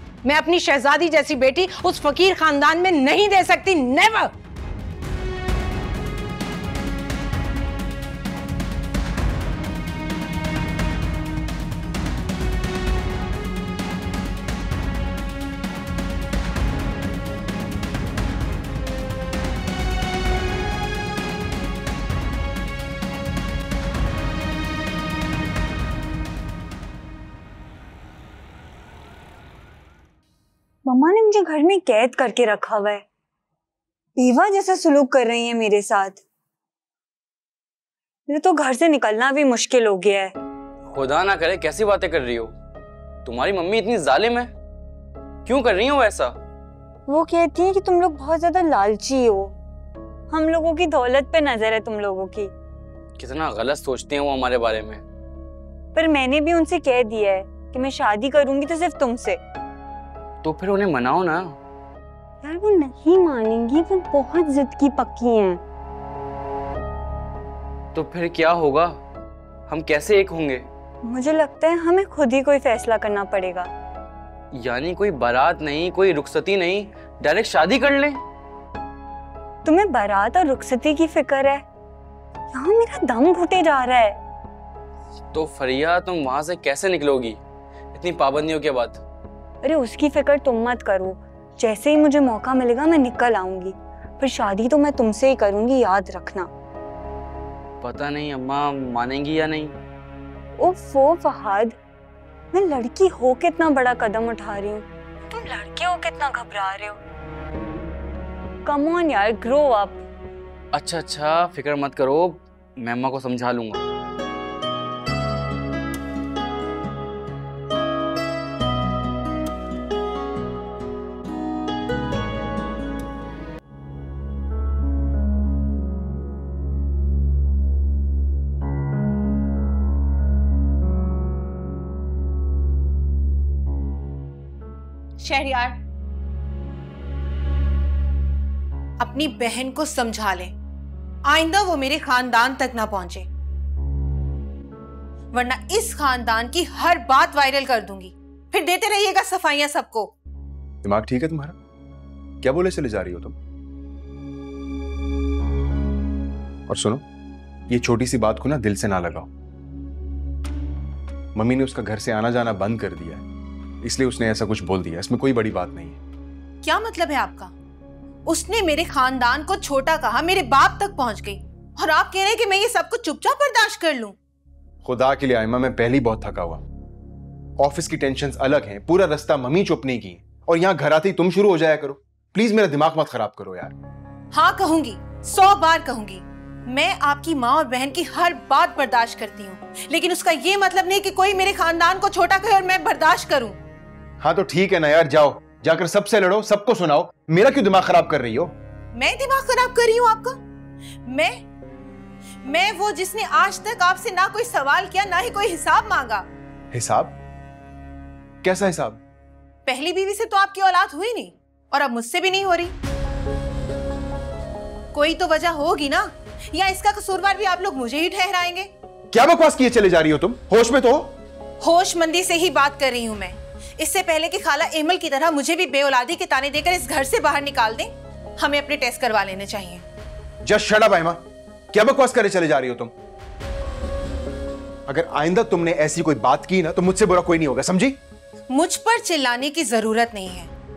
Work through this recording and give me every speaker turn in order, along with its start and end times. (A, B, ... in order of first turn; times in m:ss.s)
0:00.2-0:04.3 A
0:30.9-0:33.0 B
0:34.2-0:36.2 B
0:38.3-0:40.3 B
0:40.9-0:42.5 C
0:43.2-0:44.5 C
0:45.5-0:46.3 C
0:47.1-0:49.5 B
0:50.3-0:52.5 B
0:53.2-0:55.0 C
0:56.0-0:59.4 B
1:00.4-1:01.6 C
1:02.4-1:05.6 B
1:07.9-1:09.0 C
1:09.7-1:10.6 C
1:11.1-1:13.7 B
1:14.5-1:18.2 C
1:19.6-1:21.6 B
1:22.5-1:24.2 B
1:25.3-1:27.4 C
1:27.9-1:29.0 C
1:29.6-1:36.5 B
1:37.8-1:39.7 C
1:40.6-1:41.8 B
1:42.5-1:47.0 B
1:48.6-1:50.0 B
1:50.7-1:53.8 C
2:15.2-2:15.8 D
2:19.0-2:20.5 D
2:21.3-2:23.3 D
2:25.3-2:30.1 D
2:30.8-2:31.6 E
2:32.4-2:33.4 E
2:36.7-2:37.0 E
2:37.7-2:39.3 E
2:41.4-2:43.2 E
2:43.8-2:46.0 E
2:46.6-2:47.5 D
2:48.3-2:54.2 D
2:54.8-2:56.6 E
2:57.6-3:03.8 E
3:04.3-3:13.6 D
3:14.2-3:18.5 E
3:19.0-3:20.4 D
3:21.1-3:21.4 D
3:22.4-3:26.2 D
3:26.7-3:27.2 E
3:28.4-3:29.0 E
3:29.7-3:32.7 D
3:34.9-3:38.7 D
3:39.1-3:41.1 E
3:41.6-3:49.8 D
3:50.4-3:51.2 E
3:51.7-3:52.9 E
3:54.9-3:58.0 E
3:58.5-4:00.5 D